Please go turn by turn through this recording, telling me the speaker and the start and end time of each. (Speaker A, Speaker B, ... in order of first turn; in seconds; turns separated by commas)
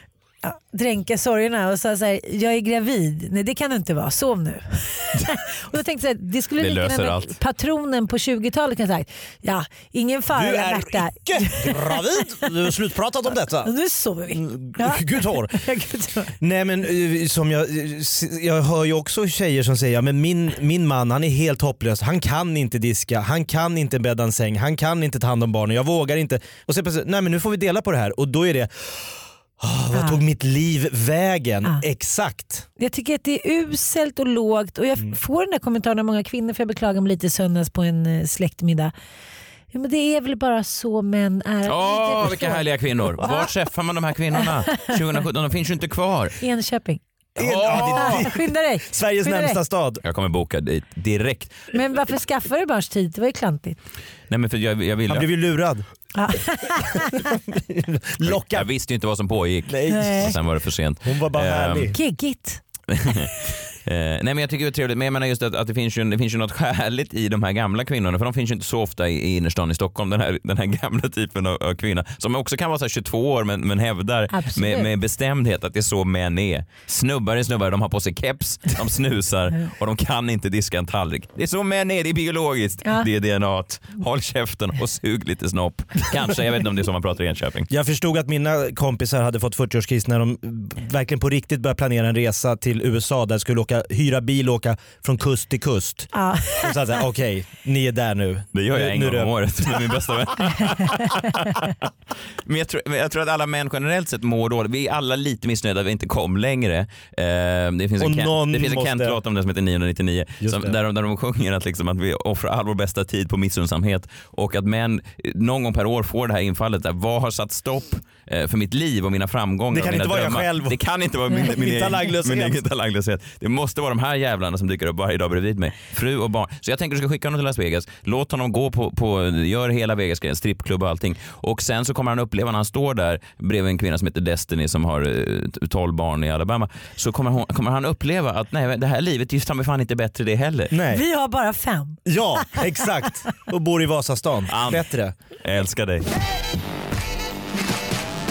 Speaker A: 0.4-12.5, Speaker B: 6.6-7.3, Speaker C: 10.3-13.7, Speaker A: 13.7-16.3, Speaker C: 14.3-15.6, Speaker C: 16.4-32.7, Speaker A: 29.9-30.2, Speaker A: 32.8-38.9, Speaker A: 39.7-42.6, Speaker B: 41.6-46.4, Speaker A: 43.2-43.5, Speaker A: 44.4-44.9, Speaker A: 46.4-47.0, Speaker C: 47.4-50.0, Speaker B: 47.4-48.2, Speaker A: 47.6-49.6, Speaker B: 50.0-51.6, Speaker A: 51.7-53.8, Speaker B: 54.3-55.3, Speaker C: 55.1-55.9, Speaker A: 56.1-57.3, Speaker C: 57.3-58.7, Speaker B: 58.2-61.9, Speaker C: 59.7-60.3, Speaker A: 59.9-60.3, Speaker C: 61.0-62.0, Speaker A: 61.9-62.6, Speaker B: 62.9-87.7, Speaker A: 74.3-74.9, Speaker C: 87.7-99.9, Speaker A: 96.1-96.7, Speaker B: 98.5-101.7, Speaker B: 102.5-140.7, Speaker C: 108.0-109.2, Speaker C: 110.4-110.8, Speaker C: 119.7-120.8, Speaker C: 121.3-122.6, Speaker C: 140.7-141.0, Speaker A: 140.9-142.6, Speaker C: 142.1-145.2, Speaker B: 144.5-144.8, Speaker B: 145.4-146.1